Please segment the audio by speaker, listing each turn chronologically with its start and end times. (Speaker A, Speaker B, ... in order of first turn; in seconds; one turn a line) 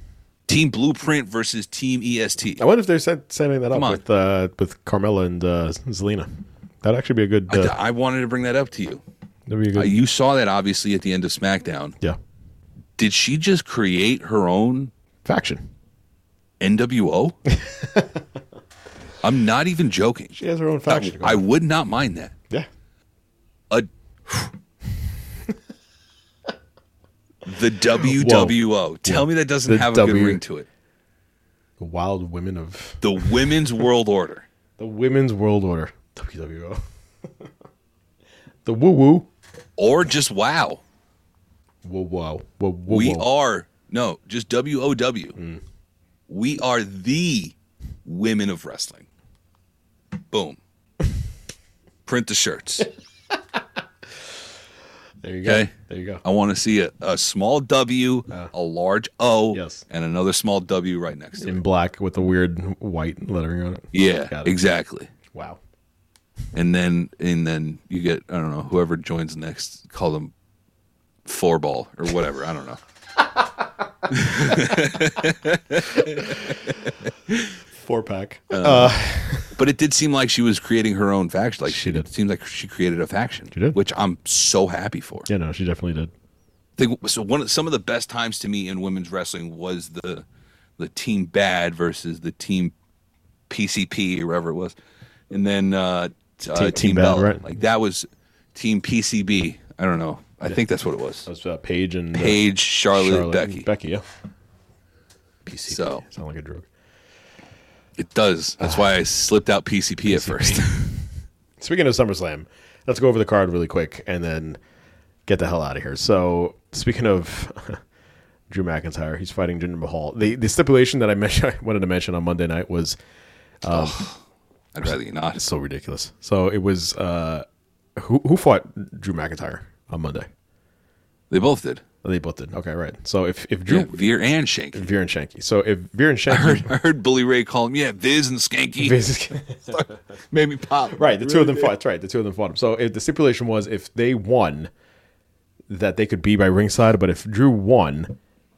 Speaker A: 0.5-2.6
Speaker B: 2.6-6.3
Speaker A: 3.7-4.0
Speaker B: 6.8-7.7
Speaker A: 7.5-9.0
Speaker B: 9.5-9.9
Speaker A: 9.8-12.0
Speaker A: 13.0-14.9
Speaker B: 15.2-15.7
Speaker A: 16.6-17.4
Speaker B: 17.5-18.1
Speaker A: 19.2-22.3
Speaker B: 20.4-21.4
Speaker A: 27.4-30.7
Speaker B: 28.0-30.4
Speaker B: 31.8-33.3
Speaker A: 33.0-34.5
Speaker B: 34.8-36.8
Speaker B: 38.6-39.3
Speaker A: 39.8-40.8
Speaker B: 41.8-43.3
Speaker A: 42.9-45.4
Speaker B: 45.4-45.6
Speaker A: 46.3-49.1
Speaker A: 50.3-50.6
Speaker A: 52.1-52.9
Speaker B: 55.2-56.2
Speaker A: 55.5-55.7
Speaker A: 56.2-61.6
Speaker B: 59.5-59.8
Speaker B: 61.4-64.5
Speaker A: 63.9-65.1
Speaker B: 65.3-65.6
Speaker A: 66.5-70.3
Speaker A: 71.2-72.8
Speaker A: 74.1-77.5
Speaker B: 77.8-79.6
Speaker A: 78.5-79.0
Speaker A: 79.5-85.3
Speaker B: 81.7-82.1
Speaker B: 83.5-83.8
Speaker B: 85.3-86.1
Speaker A: 86.8-90.2
Speaker A: 90.8-92.7
Speaker A: 93.5-94.8
Speaker A: 95.3-101.3
Speaker B: 96.5-97.4
Speaker B: 101.2-102.4
Speaker A: 102.1-103.7
Speaker B: 102.9-104.0
Speaker B: 105.5-106.7
Speaker A: 105.7-106.0
Speaker A: 108.0-110.9
Speaker B: 110.1-110.9
Speaker B: 111.6-114.6
Speaker B: 115.3-117.8
Speaker B: 118.5-123.0
Speaker B: 123.6-124.1
Speaker A: 123.7-124.2
Speaker A: 124.7-125.5
Speaker B: 124.9-127.5
Speaker B: 128.0-130.3
Speaker A: 131.3-131.8
Speaker B: 132.0-134.0
Speaker A: 133.7-134.9
Speaker B: 134.7-136.7
Speaker A: 136.3-139.0
Speaker B: 138.8-139.9
Speaker A: 139.7-141.7
Speaker B: 140.9-144.7
Speaker B: 145.7-148.2